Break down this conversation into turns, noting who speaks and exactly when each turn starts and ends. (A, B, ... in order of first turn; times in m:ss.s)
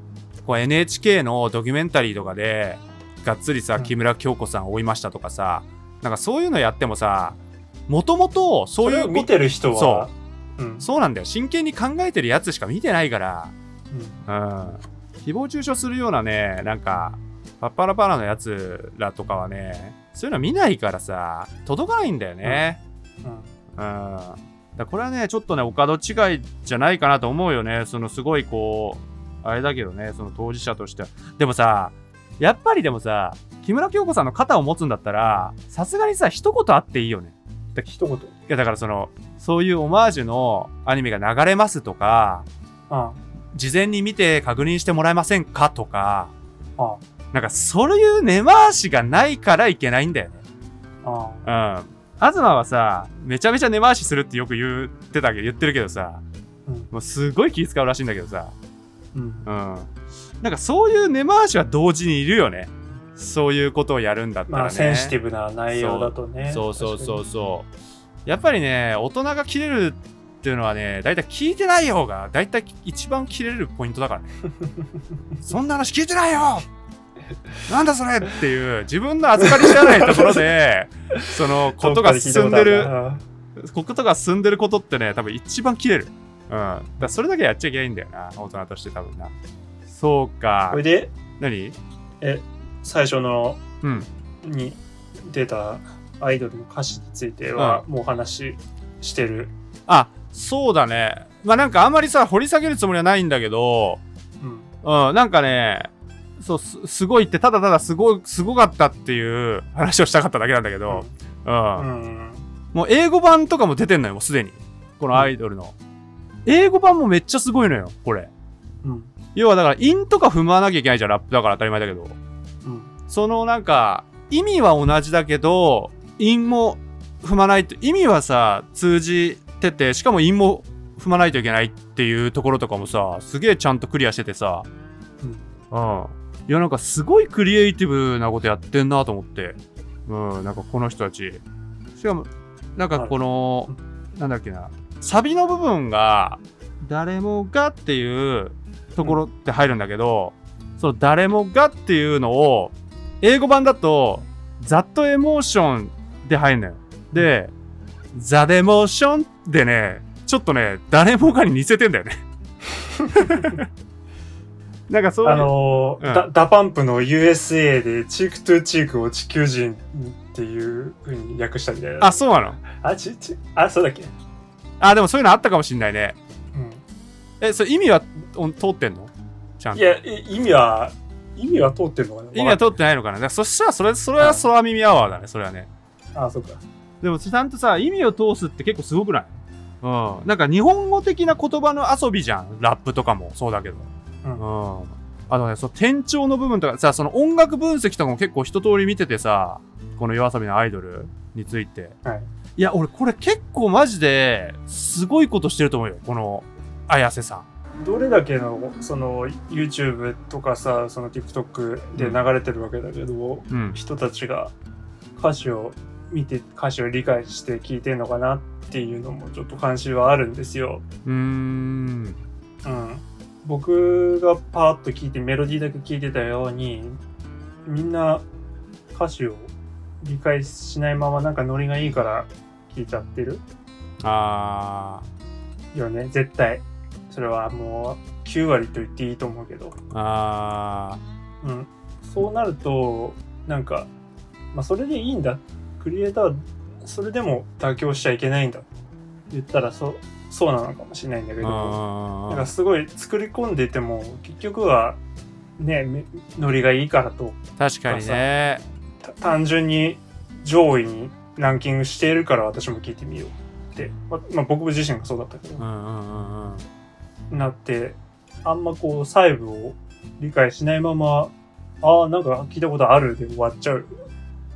0:00.4-0:10.1 A
0:08.8-0:10.9 B
0:10.8-0:13.5 A
0:13.9-0:14.2 B
0:14.3-0:22.8 A
0:23.2-0:23.5 B
0:23.8-0:37.4 A
0:37.8-0:38.3 B
0:38.5-0:42.5 A
0:42.9-0:43.2 B
0:43.5-0:46.3 A
0:47.3-0:50.4 A
0:51.0-0:51.4 B
0:51.4-0:56.2 A
0:56.9-0:58.5 A
0:59.1-0:59.4 B
0:59.4-0:59.9 A
1:00.4-1:05.1 A
1:04.5-1:07.2 B
1:05.7-1:07.7 A
1:08.3-1:14.3 A
1:15.4-1:16.6 A
1:17.7-1:22.9 A
1:19.4-1:20.4 B
1:21.8-1:23.2 B
1:23.6-1:29.3 A
1:29.9-1:30.8 A
1:30.7-1:31.1 B
1:31.4-1:31.8 A
1:32.2-1:33.6 B
1:33.8-1:34.1 A
1:34.4-1:39.5 B
1:37.6-1:37.8 A
1:39.9-1:44.0 A
1:44.4-1:44.7 B
1:44.8-1:51.9 A
1:51.8-1:52.5 B
1:52.7-1:55.8 A
1:56.5-1:58.3 A
1:58.8-1:59.1 B
1:59.3-2:02.2 A
2:02.6-2:02.9 B
2:03.1-2:14.7 A
2:15.2-2:15.5 B
2:15.7-2:21.4 A
2:22.0-2:37.5 A
2:38.1-2:42.2 A
2:43.0-2:43.5 B
2:43.1-2:43.6 A
2:44.9-2:45.5 A
2:45.2-2:54.1 B
2:46.0-2:46.3 A
2:52.0-2:52.6 A
2:54.8-2:56.2 A
2:56.5-2:56.8 B
2:57.4-3:00.0 A
2:59.7-3:02.8 B
3:02.3-3:05.7 A
3:04.2-3:04.4 B
3:06.2-3:06.6 B
3:07.0-3:09.3 A
3:09.8-3:22.0 A
3:22.6-3:27.5 A
3:27.8-3:34.5 B
3:33.5-3:33.8 A
3:35.2-3:40.8 B
3:41.1-3:42.2 A
3:42.6-3:47.0 B
3:47.7-3:48.3 B
3:48.9-3:53.4 B
3:54.0-3:55.0 A
3:55.7-3:59.8 B
3:59.9-4:01.0 A
4:01.4-4:03.9 B
4:04.5-4:08.7 B
4:09.3-4:15.0 B
4:11.4-4:12.5 A
4:15.6-4:18.3 B
4:17.6-4:18.6 A
4:19.0-4:25.6 B
4:25.6-4:26.6 A
4:27.3-4:33.9 B